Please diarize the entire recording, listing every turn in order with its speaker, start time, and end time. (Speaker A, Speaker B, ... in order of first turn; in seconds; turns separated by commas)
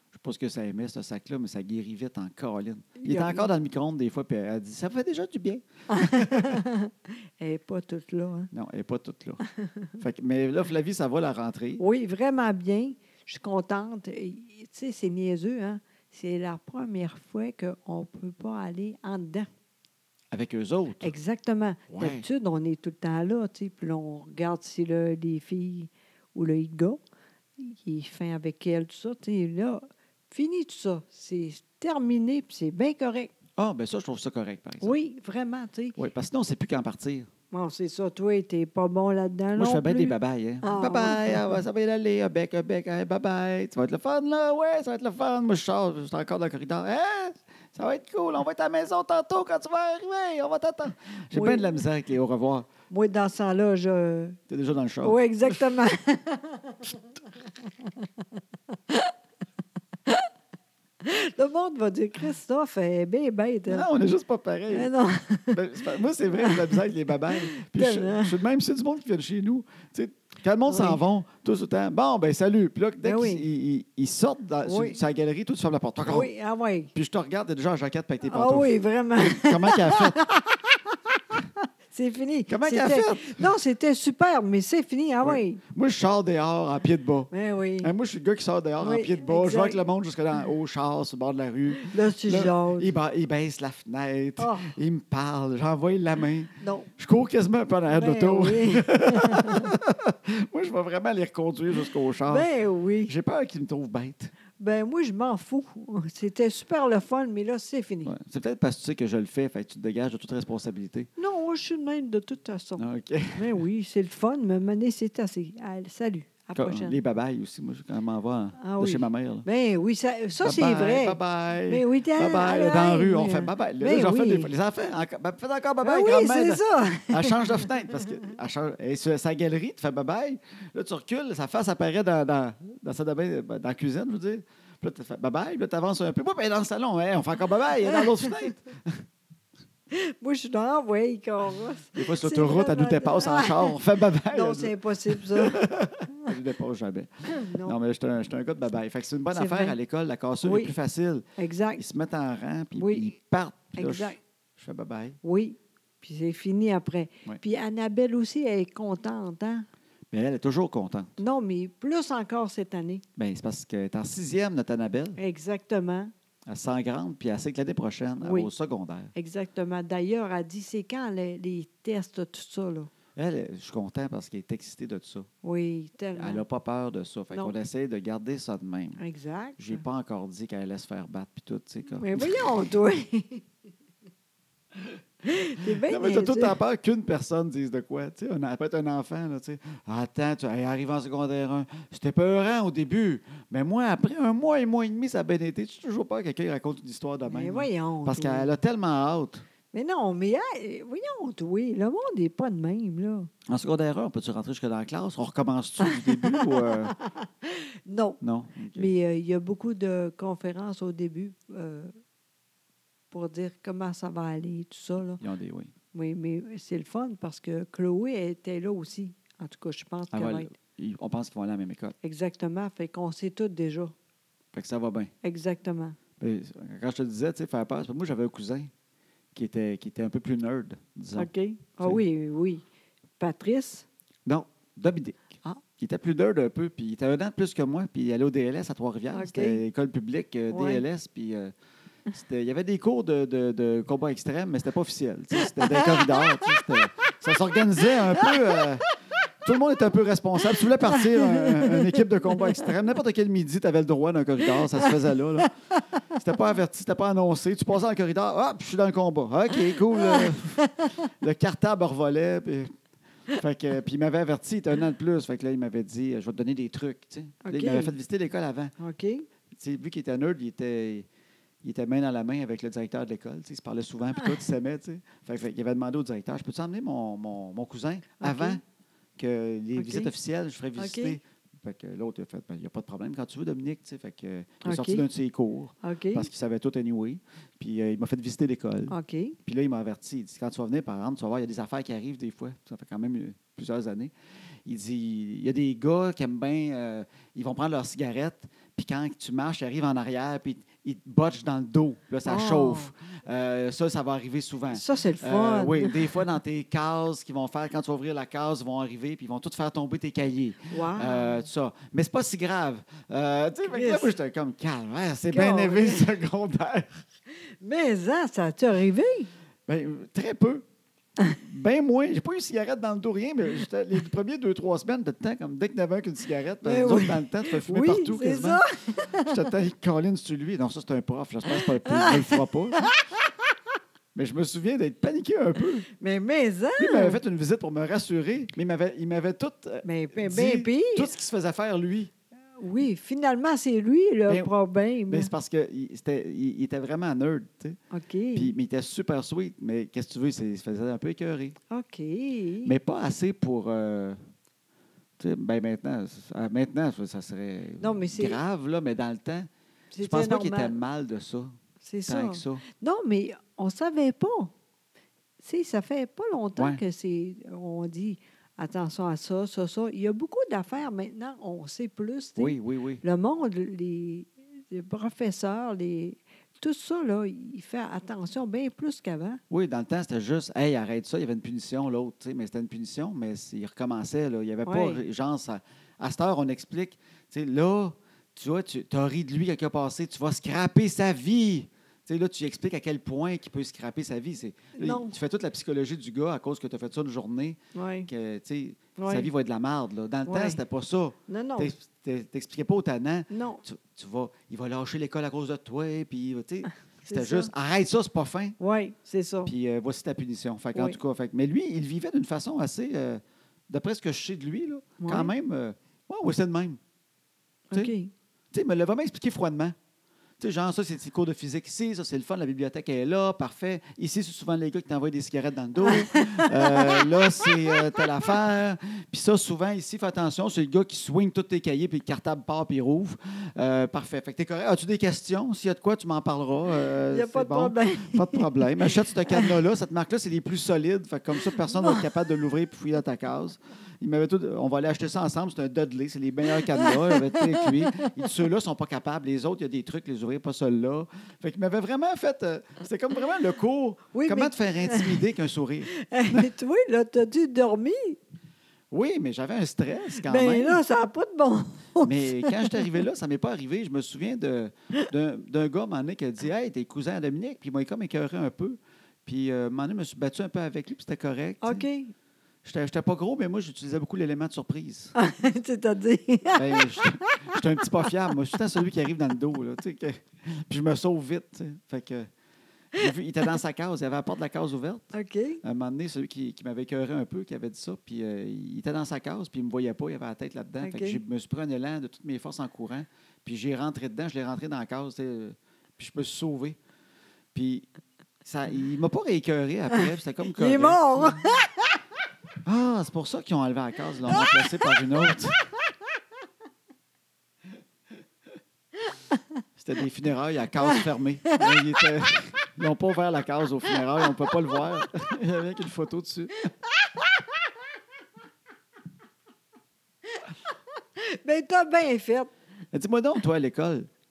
Speaker A: 0.1-6.6, Speaker B: 3.0-3.5, Speaker B: 5.9-8.5, Speaker A: 8.5-9.4, Speaker B: 9.6-9.9, Speaker A: 10.0-11.8, Speaker B: 11.8-19.5, Speaker A: 20.3-21.1, Speaker B: 21.0-27.0, Speaker A: 21.9-22.2, Speaker B: 27.6-33.3, Speaker A: 33.6-34.9, Speaker B: 34.8-36.0, Speaker A: 36.0-37.3, Speaker B: 37.5-41.6, Speaker A: 39.5-52.7, Speaker B: 51.3-51.6, Speaker B: 52.9-54.4, Speaker A: 54.5-55.6, Speaker B: 55.0-57.0, Speaker B: 57.8-58.1, Speaker B: 58.7-59.1, Speaker B: 61.0-63.9, Speaker A: 63.7-64.9, Speaker B: 64.7-65.6, Speaker A: 65.5-76.3, Speaker B: 66.4-66.8, Speaker B: 67.3-68.4, Speaker B: 70.7-71.0, Speaker B: 73.0-73.4, Speaker B: 74.6-75.0, Speaker B: 76.0-76.9, Speaker A: 76.9-80.2, Speaker B: 78.2-85.6, Speaker A: 82.5-83.5, Speaker A: 85.2-87.3, Speaker B: 87.3-87.9, Speaker A: 87.8-102.5, Speaker B: 88.8-89.8, Speaker B: 91.8-92.9, Speaker B: 94.4-94.7, Speaker B: 96.6-96.9, Speaker B: 97.9-99.7, Speaker B: 102.3-103.1, Speaker A: 103.1-104.3, Speaker B: 104.6-108.1, Speaker A: 108.0-111.1, Speaker B: 111.2-117.0, Speaker A: 112.8-113.6, Speaker A: 116.5-119.5, Speaker B: 118.6-124.5, Speaker A: 120.4-139.0, Speaker B: 125.8-127.7, Speaker B: 139.9-143.7, Speaker A: 141.9-151.2, Speaker B: 144.3-145.6, Speaker B: 147.3-147.8, Speaker B: 149.3-149.8, Speaker B: 150.4-150.8, Speaker B: 151.4-151.8, Speaker A: 151.8-155.2, Speaker B: 152.8-153.1, Speaker B: 153.7-154.2, Speaker B: 155.2-159.6, Speaker A: 160.1-161.2, Speaker B: 161.2-163.0, Speaker A: 163.2-165.2, Speaker B: 165.2-166.1, Speaker A: 166.5-169.1, Speaker B: 168.2-168.5, Speaker B: 169.1-172.9, Speaker A: 173.2-175.3, Speaker B: 175.4-176.4, Speaker A: 176.2-179.0, Speaker B: 179.0-179.8, Speaker A: 179.6-182.5, Speaker B: 182.0-183.4, Speaker B: 185.2-186.6, Speaker A: 185.7-199.4, Speaker B: 197.3-198.5, Speaker B: 199.7-203.3, Speaker A: 203.5-206.9, Speaker B: 205.8-208.2, Speaker A: 208.2-208.9, Speaker B: 208.7-211.9, Speaker B: 213.1-215.2, Speaker A: 215.2-215.7, Speaker B: 215.9-220.5, Speaker A: 220.1-221.9, Speaker B: 222.0-223.9, Speaker A: 224.5-225.1, Speaker B: 225.2-226.0, Speaker A: 226.2-228.7, Speaker A: 229.3-232.0, Speaker B: 231.1-232.6, Speaker B: 233.2-233.9, Speaker A: 234.2-241.5, Speaker B: 239.1-239.6, Speaker B: 240.5-240.8, Speaker A: 242.1-248.9, Speaker B: 245.4-246.8, Speaker B: 247.6-248.6, Speaker A: 249.4-255.5, Speaker B: 250.6-252.6, Speaker B: 255.4-255.8, Speaker A: 256.1-262.7, Speaker B: 259.7-261.1, Speaker A: 263.3-268.7, Speaker B: 267.4-267.9, Speaker B: 268.8-269.2, Speaker A: 269.5-271.1, Speaker A: 271.6-278.6, Speaker B: 278.2-278.6, Speaker A: 279.2-294.1, Speaker B: 279.8-280.1, Speaker B: 280.8-281.2, Speaker B: 284.6-285.0, Speaker B: 285.8-286.3, Speaker B: 288.9-289.4, Speaker A: 294.6-317.0, Speaker B: 302.2-302.9, Speaker B: 304.7-306.2, Speaker B: 310.7-311.4, Speaker B: 313.7-314.1, Speaker B: 315.3-316.1, Speaker B: 317.6-319.3, Speaker A: 319.7-320.6, Speaker A: 321.3-332.8, Speaker B: 326.6-329.4, Speaker B: 331.5-333.1, Speaker A: 334.1-335.9, Speaker B: 335.9-337.2, Speaker A: 336.8-342.1, Speaker B: 339.8-341.1, Speaker B: 342.6-345.3, Speaker A: 344.3-344.5, Speaker A: 345.1-347.8, Speaker B: 347.9-348.5, Speaker A: 348.3-351.6, Speaker B: 351.7-352.7, Speaker A: 352.6-354.2, Speaker A: 355.2-359.5, Speaker B: 357.8-358.4, Speaker B: 359.9-360.7, Speaker A: 360.0-362.6, Speaker B: 361.8-364.5, Speaker B: 365.4-379.4, Speaker A: 366.6-366.8, Speaker A: 372.4-373.0, Speaker A: 379.5-408.6, Speaker B: 384.6-385.0, Speaker B: 394.7-395.1, Speaker B: 397.7-398.1, Speaker B: 399.0-399.3, Speaker B: 400.2-400.6, Speaker B: 401.3-401.7, Speaker B: 403.3-403.6, Speaker B: 407.0-407.5, Speaker B: 408.6-409.5, Speaker A: 409.4-416.8, Speaker B: 410.7-411.0, Speaker B: 415.0-415.3, Speaker B: 417.7-418.1, Speaker A: 418.5-419.7, Speaker A: 420.4-456.5, Speaker B: 425.8-428.1, Speaker B: 437.1-439.5, Speaker B: 441.7-442.0, Speaker B: 446.6-448.1, Speaker B: 454.1-455.2, Speaker B: 455.9-458.2, Speaker A: 458.9-460.8, Speaker B: 460.2-463.0, Speaker A: 462.0-471.8, Speaker B: 471.6-472.1, Speaker A: 472.6-475.1, Speaker B: 475.1-477.6, Speaker A: 476.5-482.3, Speaker A: 482.9-485.1, Speaker B: 485.1-485.6, Speaker A: 485.6-496.8, Speaker B: 490.8-491.2, Speaker A: 497.5-497.9, Speaker A: 498.4-501.4, Speaker B: 500.5-501.9, Speaker A: 502.6-505.6, Speaker B: 504.3-504.9, Speaker A: 509.8-516.7, Speaker B: 510.9-512.0, Speaker B: 521.2-522.5, Speaker A: 522.9-524.1